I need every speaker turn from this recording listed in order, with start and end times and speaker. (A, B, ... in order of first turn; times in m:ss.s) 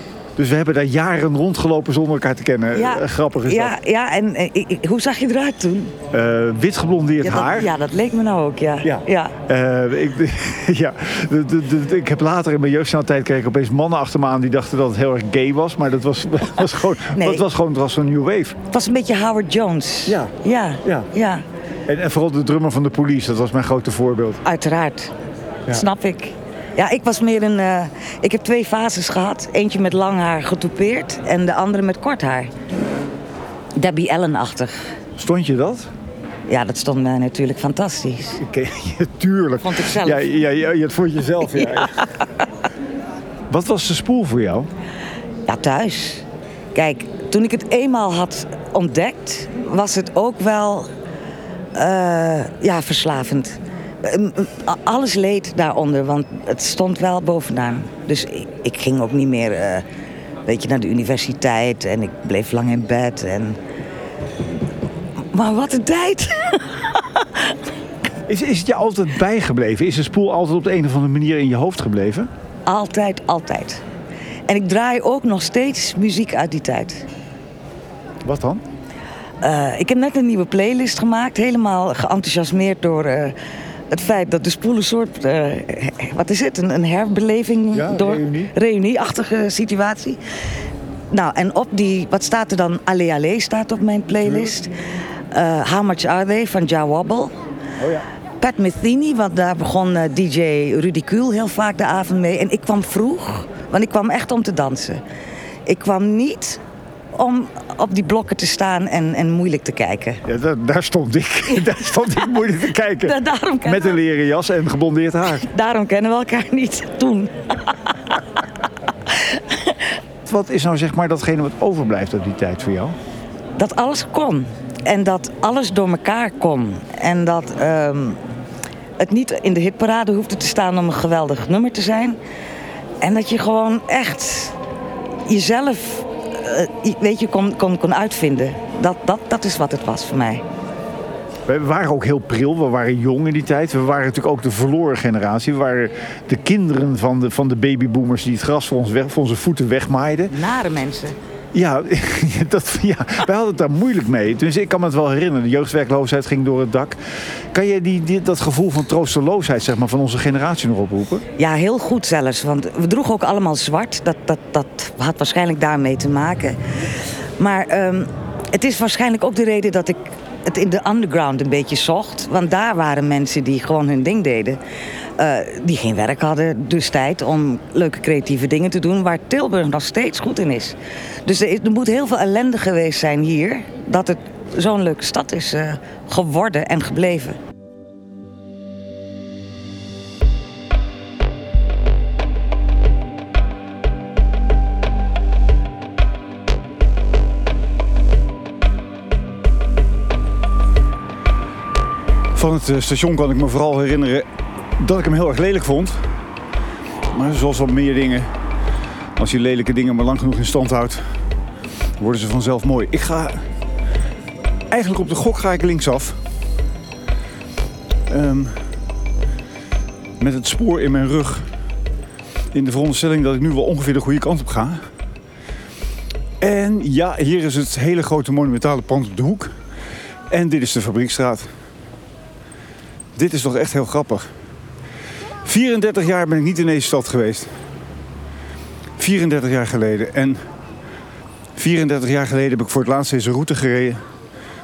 0:00.4-0:03.7 A
0:02.7-0:05.9 B
0:06.1-0:07.7 A
0:07.2-0:09.3 B
0:08.8-0:18.6 A
0:17.1-0:17.4 B
0:18.7-0:21.4 B
0:20.1-0:20.3 A
0:20.8-0:21.1 A
0:21.9-0:24.4 A
0:24.4-0:25.1 B
0:25.7-0:32.5 B
0:33.8-0:34.9 B
0:35.2-0:35.9 A
0:36.5-0:38.4 B
0:38.4-0:42.0 A
0:39.6-0:40.3 B
0:41.6-0:42.1 B
0:43.5-0:44.7 A
0:45.5-0:46.2 B
0:46.7-0:50.9 B
0:51.7-0:59.8 B
1:00.4-1:03.6 B
1:05.3-1:07.5 B
1:08.3-1:12.3 A
1:12.7-1:13.8 B
1:14.5-1:17.0 B
1:18.2-1:18.6 A
1:19.4-1:23.3 B
1:23.9-1:30.2 B
1:27.7-1:28.5 A
1:31.1-1:34.7 B
1:34.2-1:34.5 A
1:35.3-1:37.3 B
1:37.8-1:38.1 A
1:38.4-1:45.0 B
1:45.7-1:46.6 B
1:47.1-1:50.2 B
1:50.2-1:55.5 A
1:53.0-1:54.0 B
1:55.4-1:58.2 B
1:59.1-1:59.9 B
2:00.2-2:02.9 A
2:03.6-2:08.2 B
2:09.0-2:12.2 B
2:13.0-2:14.6 B
2:15.3-2:20.4 B
2:21.5-2:30.4 A
2:30.3-2:31.2 B
2:31.5-2:41.2 A
2:41.4-2:46.6 B
2:47.4-2:54.6 B
2:55.2-3:07.4 B
3:22.3-3:24.2 A
3:24.8-3:26.1 A
3:27.1-3:28.3 A
3:29.2-3:31.1 A
3:32.0-3:33.4 A
3:34.7-3:36.2 A
3:38.1-3:38.7 A
3:40.2-3:41.5 A
3:42.5-3:44.8 A
3:46.4-3:49.5 A
3:50.3-3:51.5 A
3:53.2-3:54.3 A
3:55.4-3:57.5 A
3:59.0-4:00.4 A
4:01.6-4:04.0 A